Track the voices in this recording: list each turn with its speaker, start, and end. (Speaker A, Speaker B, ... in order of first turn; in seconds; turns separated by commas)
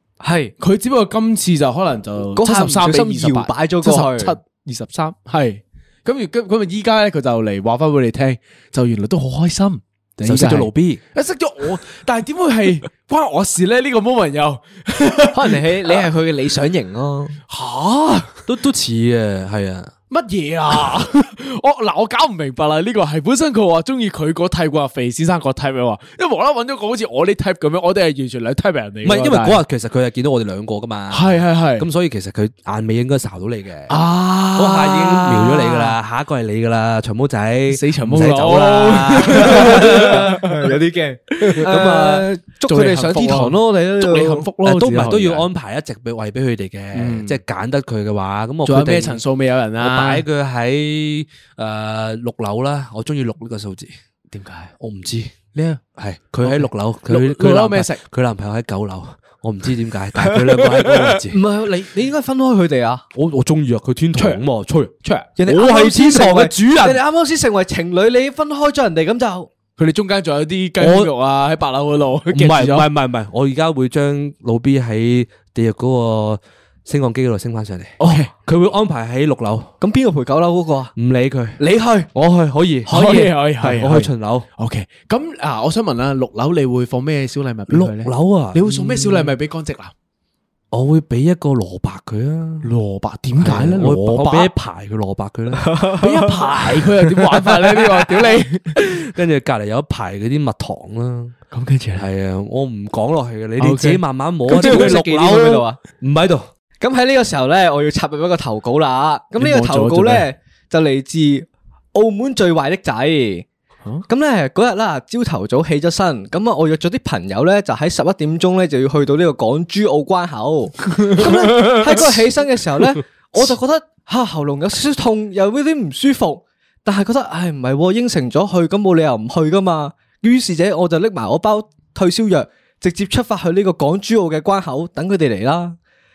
Speaker A: 0.2-0.5, Speaker B: 0.6-16.0, Speaker A: 2.4-4.4, Speaker C: 10.2-11.0, Speaker A: 15.3-17.4, Speaker B: 17.5-18.4, Speaker C: 18.5-19.9, Speaker B: 20.1-29.6, Speaker C: 29.0-34.0, Speaker B: 31.1-31.9, Speaker B: 33.9-36.0, Speaker C: 34.5-40.3, Speaker B: 37.7-40.7, Speaker A: 39.3-44.5, Speaker C: 41.5-42.3, Speaker B: 42.6-45.5, Speaker C: 44.6-49.2, Speaker B: 46.9-47.4, Speaker B: 48.6-50.2, Speaker C: 49.8-53.9, Speaker B: 54.3-54.7, Speaker C: 54.8-55.3, Speaker B: 55.5-55.8, Speaker C: 55.9-61.4, Speaker B: 56.4-58.0, Speaker B: 60.9-61.1, Speaker A: 61.3-63.0, Speaker C: 63.1-67.0, Speaker B: 64.1-64.4, Speaker B: 65.0-65.3, Speaker A: 65.4-69.5, Speaker B: 69.8-72.9, Speaker C: 70.8-71.1, Speaker C: 72.3-79.7, Speaker B: 78.0-78.3, Speaker A: 79.8-80.9, Speaker C: 81.0-81.6, Speaker A: 81.6-82.1, Speaker C: 82.1-84.5, Speaker B: 82.9-89.9, Speaker A: 82.9-83.2, Speaker C: 87.7-89.3, Speaker C: 90.7-92.7, Speaker B: 92.6-94.5, Speaker C: 93.4-95.8, Speaker A: 95.6-96.3, Speaker B: 96.0-98.8, Speaker C: 97.8-101.3, Speaker B: 101.5-102.0, Speaker C: 101.9-106.5, Speaker B: 103.6-104.8, Speaker A: 104.5-105.8, Speaker A: 106.8-113.5, Speaker B: 109.4-110.3, Speaker A: 114.1-135.8, Speaker B: 121.0-122.2